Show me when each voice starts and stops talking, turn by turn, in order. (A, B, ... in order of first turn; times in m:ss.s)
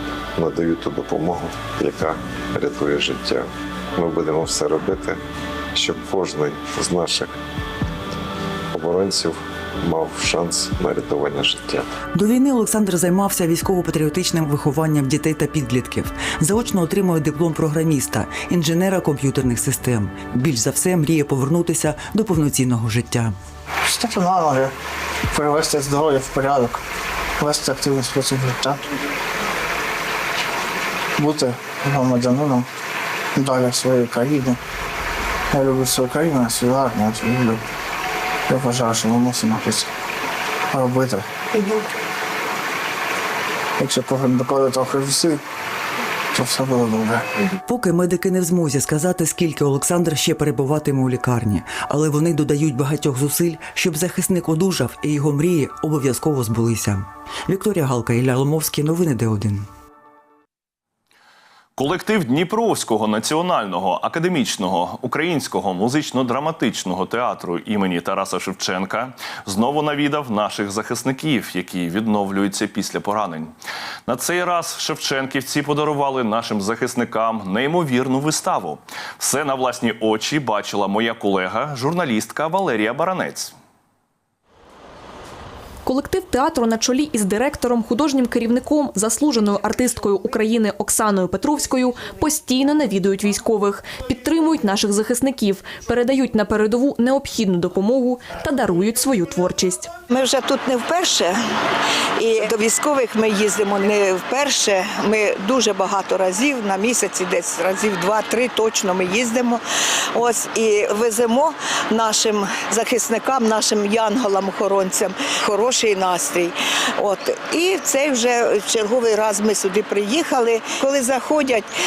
0:00.4-0:05.2 A
0:05.7-0:07.3 A
0:08.7-0:11.9 A
0:12.2-0:23.4 B
0:23.8-0:24.7 C
0:25.3-0:26.8 C
0:27.4-0:28.8 C
0:31.2-0:32.7 C
0:33.4-0:34.6 C
0:35.5-0:37.6 C
0:38.5-0:39.9 C
0:40.7-0:41.3 C
0:43.8-0:45.4 C
0:46.3-0:47.3 C
0:47.6-0:59.7 B
1:01.8-1:13.5 D
1:14.1-1:23.5 D
1:25.8-1:39.9 E
1:40.1-1:41.4 F
1:42.2-1:49.6 F
1:50.2-2:01.7 F